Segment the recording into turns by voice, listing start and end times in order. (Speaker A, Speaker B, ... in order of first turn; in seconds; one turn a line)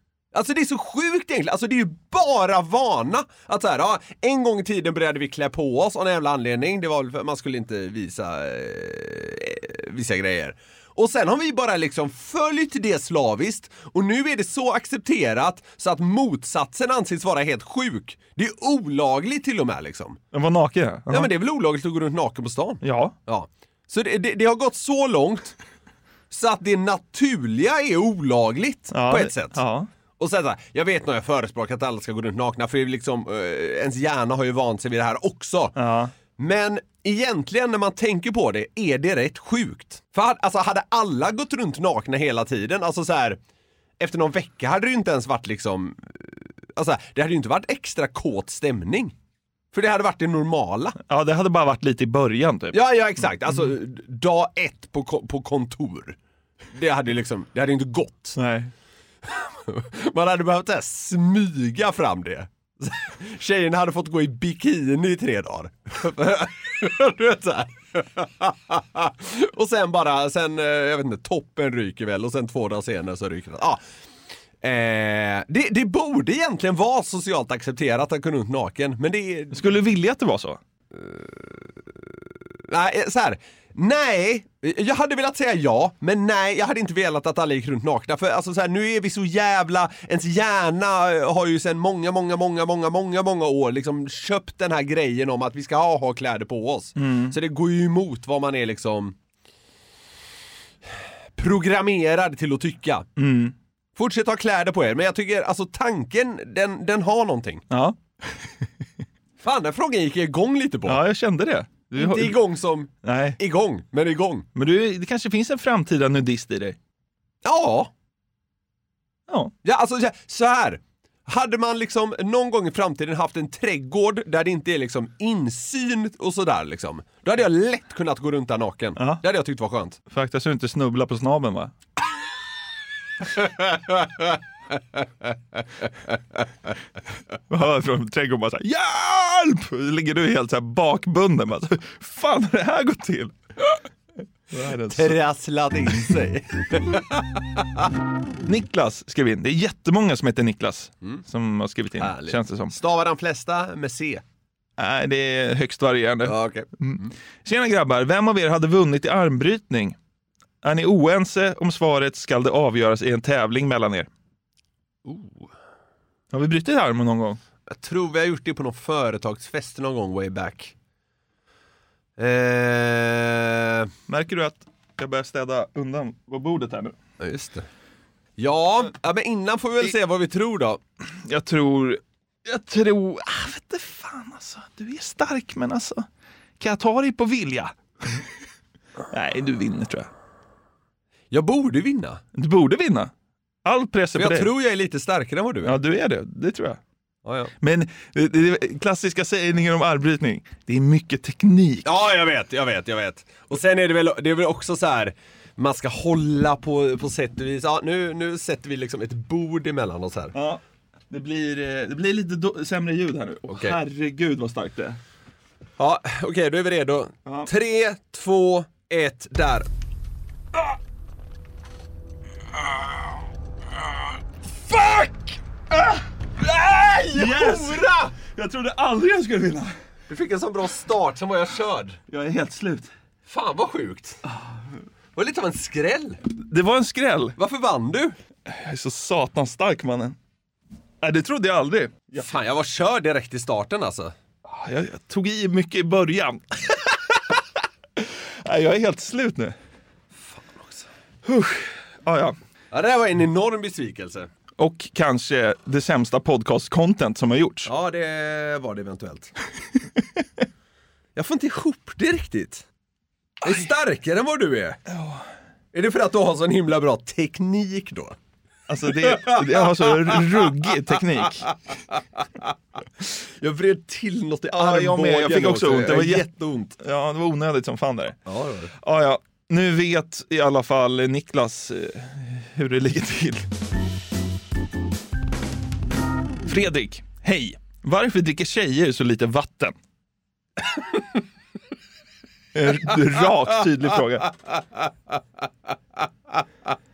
Speaker A: 0.3-20.2
Speaker B: 20.3-21.3
Speaker A: 21.1-25.6
Speaker B: 22.8-23.1
Speaker A: 26.3-29.6
Speaker B: 28.9-29.9
Speaker A: 30.2-35.8
Speaker B: 35.8-36.1
Speaker A: 36.4-43.4
Speaker A: 44.0-49.1
Speaker A: 49.7-51.0
Speaker B: 51.1-52.8
Speaker A: 52.7-56.2
Speaker A: 56.8-58.4
Speaker B: 58.4-58.7
Speaker A: 59.3-73.8
Speaker A: 74.6-79.8
Speaker B: 79.5-80.6
Speaker A: 80.9-81.7
Speaker A: 82.7-99.2
Speaker B: 97.0-97.4
Speaker A: 101.4-103.1
Speaker B: 103.2-103.5
Speaker A: 104.0-107.6
Speaker B: 107.7-108.4
Speaker A: 109.4-111.0
Speaker B: 110.9-112.4
Speaker A: 112.0-114.5
Speaker B: 113.0-113.4
Speaker B: 114.5-116.8
Speaker A: 117.4-117.9
Speaker A: 119.6-130.0
Speaker B: 129.0-129.2
Speaker B: 130.1-131.7
Speaker A: 133.4-134.3
Speaker B: 137.5-143.8
Speaker B: 144.5-145.2
Speaker A: 144.9-147.6
Speaker B: 148.5-152.8
Speaker A: 152.0-154.2
Speaker B: 154.8-160.0
Speaker A: 156.2-157.1
Speaker B: 160.6-164.1
Speaker A: 165.1-165.5
Speaker B: 166.3-167.4
Speaker A: 167.7-170.7
Speaker A: 172.2-173.9
Speaker B: 174.1-177.0
Speaker A: 177.2-177.7
Speaker A: 178.4-180.8
Speaker B: 181.2-186.1
Speaker B: 186.6-188.2
Speaker B: 189.1-190.1
Speaker A: 191.3-192.2
Speaker B: 192.3-193.1
Speaker B: 193.7-194.5
Speaker A: 194.2-195.8
Speaker B: 195.6-196.8
Speaker A: 197.2-197.5
Speaker B: 197.6-201.9
Speaker A: 201.8-210.3
Speaker B: 210.3-215.0
Speaker A: 213.5-213.8
Speaker A: 215.8-219.7
Speaker A: 226.4-228.2
Speaker B: 227.1-229.7
Speaker A: 230.1-232.0
Speaker B: 232.1-232.9
Speaker A: 233.3-234.2
Speaker A: 235.2-236.2
Speaker B: 236.5-237.4
Speaker A: 237.4-238.2
Speaker B: 238.5-240.2
Speaker B: 241.0-242.2
Speaker A: 242.2-244.1
Speaker B: 244.5-246.9
Speaker B: 248.0-249.6
Speaker A: 250.2-250.9
Speaker B: 251.3-252.4
Speaker A: 252.7-254.3
Speaker B: 254.6-257.7
Speaker A: 257.7-259.3
Speaker A: 261.2-262.6
Speaker A: 263.4-264.8
Speaker B: 264.9-265.2
Speaker A: 265.7-268.2
Speaker B: 268.7-271.5
Speaker A: 268.9-270.5
Speaker A: 272.2-272.4
Speaker A: 273.4-276.8
Speaker B: 274.6-276.2
Speaker B: 276.8-278.2
Speaker A: 278.3-278.7
Speaker B: 278.8-283.5
Speaker B: 286.5-289.8
Speaker B: 292.6-294.3